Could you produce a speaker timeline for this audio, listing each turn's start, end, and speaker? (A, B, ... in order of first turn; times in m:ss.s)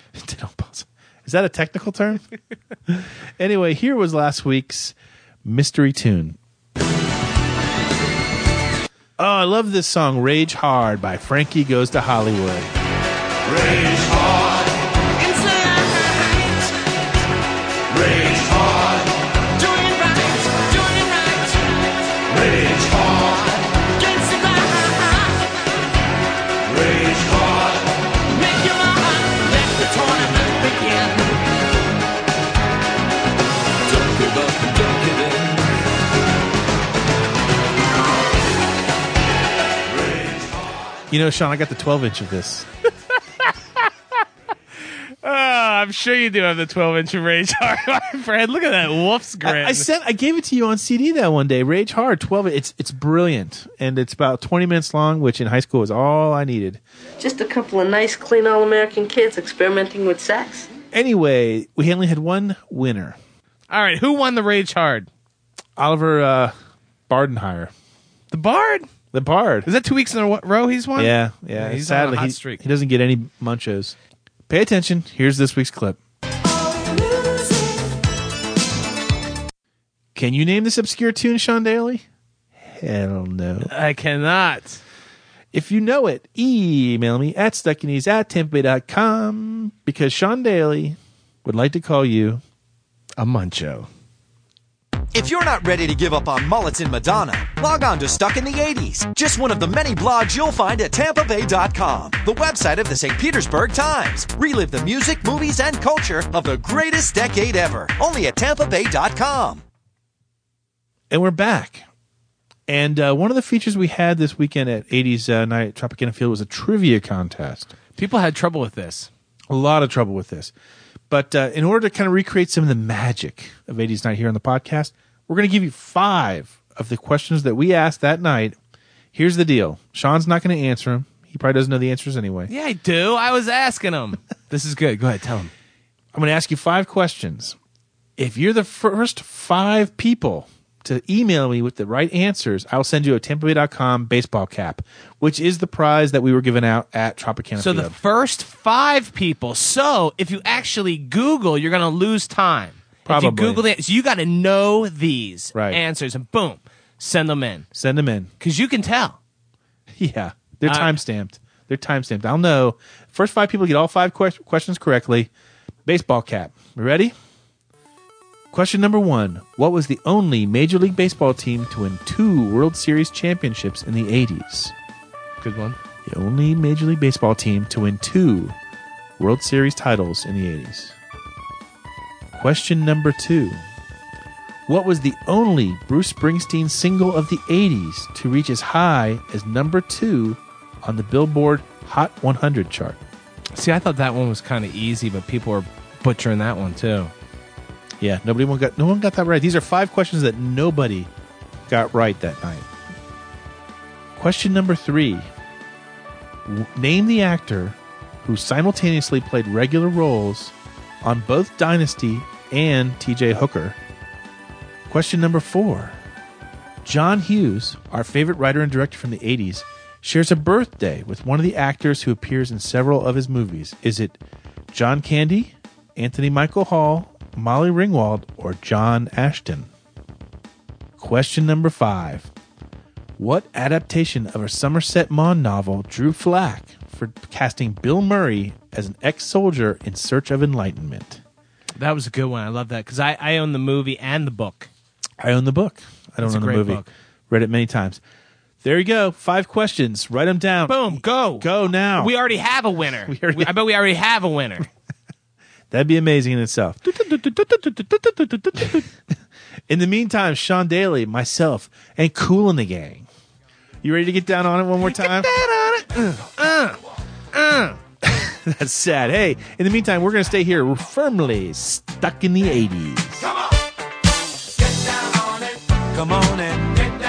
0:00.2-0:02.2 A
0:02.9-0:06.4 A
0:09.2-0:12.7 A
0:34.2-0:35.5 B
0:41.1-0:42.7 A
0:45.2-0:49.9 C
0:49.4-0:56.8 A
0:57.2-1:00.7 D
1:00.9-1:03.2 A
1:03.7-1:05.1 C
1:05.8-1:06.5 A
1:07.1-1:07.7 A
1:08.3-1:08.9 C
1:09.1-1:09.7 A
1:09.6-1:12.6 C
1:11.0-1:14.0 A
1:14.5-1:16.0 A
1:20.2-1:22.0 A
1:22.6-1:23.7 A
1:23.6-1:24.8 C
1:25.5-1:32.4 A
1:33.2-1:33.9 C
1:35.1-1:49.6 E
1:51.1-1:51.9 A
1:52.7-1:57.7 A
1:58.0-1:59.1 C
1:59.5-2:00.5 A
2:01.1-2:08.6 A
2:09.1-2:12.5 A
2:12.5-2:15.5 C
2:16.1-2:17.6 A
2:18.2-2:28.0 A
2:27.6-2:37.7 C
2:33.1-2:33.6 A
2:35.5-2:35.8 A
2:37.8-2:38.3 A
2:38.4-2:39.2 C
2:40.0-2:45.3 A
2:40.7-2:41.0 C
2:45.8-2:47.1 A
2:48.5-2:54.7 A
2:55.4-2:55.8 C
2:56.1-2:58.6 A
2:59.2-3:01.0 A
3:02.3-3:03.6 A
3:04.7-3:13.0 A
3:13.6-3:17.1 C
3:18.0-3:21.1 A
3:21.7-3:22.7 A
3:24.2-3:25.3 A
3:26.5-3:33.8 A
3:34.9-3:36.0 A
3:36.8-3:44.2 A
3:44.7-3:49.7 A
3:51.0-3:52.3 A
3:53.2-4:01.2 A
4:01.8-4:04.7 C
4:05.2-4:08.0 A
4:06.2-4:06.9 C
4:08.6-4:12.1 A
4:10.7-4:14.7 C
4:13.1-4:13.5 A
4:15.7-4:18.9 A
4:19.7-4:23.1 A
4:23.8-4:25.3 A
4:24.8-4:26.8 C
4:27.3-4:27.8 C
4:28.0-4:33.3 A
4:35.9-4:36.8 B